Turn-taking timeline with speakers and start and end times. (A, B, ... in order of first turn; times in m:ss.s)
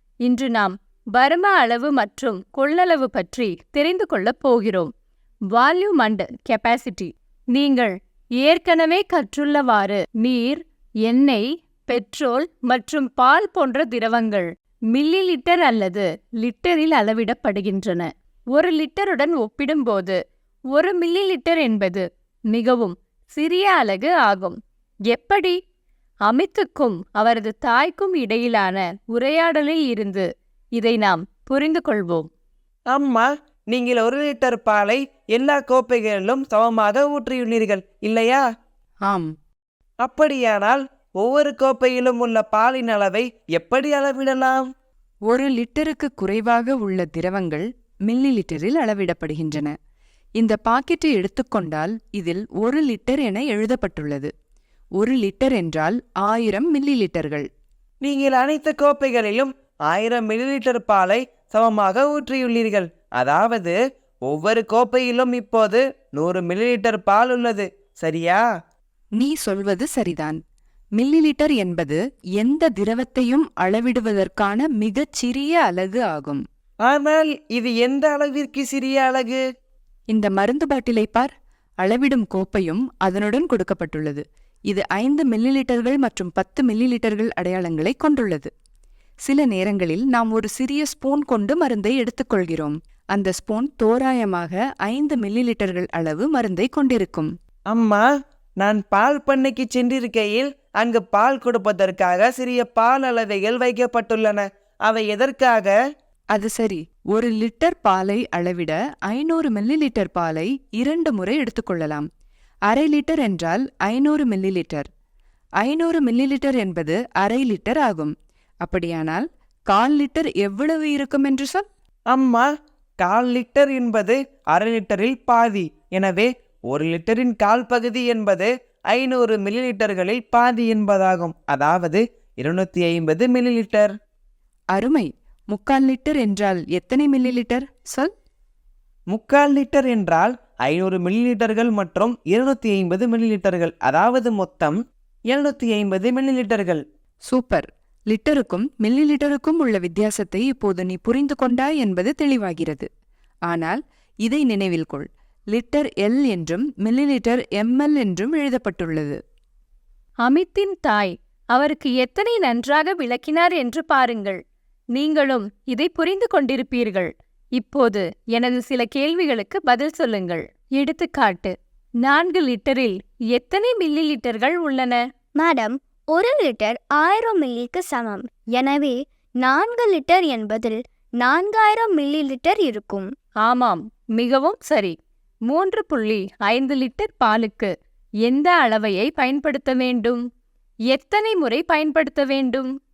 0:00.2-0:04.9 A
0:05.5-0:20.2 A
0:20.7-0:24.6 A
0:25.1-0:25.6 A
0:26.3-0:32.3 A
0:32.9-0:38.4 B
0:39.0-0:39.3 C
0:40.0-0:44.7 B
0:45.3-0:49.7 C
0:50.4-0:54.3 C
0:55.0-0:57.5 C
0:58.0-1:08.4 B
1:09.2-1:10.4 C
1:11.0-1:16.4 C
1:16.9-1:19.4 B
1:20.1-1:28.5 C
1:29.2-1:37.3 C
1:37.7-1:38.1 B
1:38.6-1:45.7 B
1:46.3-1:52.1 C
1:52.7-1:54.9 C
1:55.6-2:01.7 C
2:02.1-2:02.5 B
2:03.0-2:13.9 B
2:14.7-2:18.1 C
2:19.1-2:24.8 B
2:25.3-2:26.8 B
2:27.3-2:32.9 C
2:33.5-2:39.2 C
2:40.2-2:44.4 A
2:44.9-2:55.0 A
2:55.4-3:03.1 D
3:03.4-3:05.0 A
3:05.5-3:07.7 A
3:08.2-3:10.2 A
3:10.9-3:12.7 A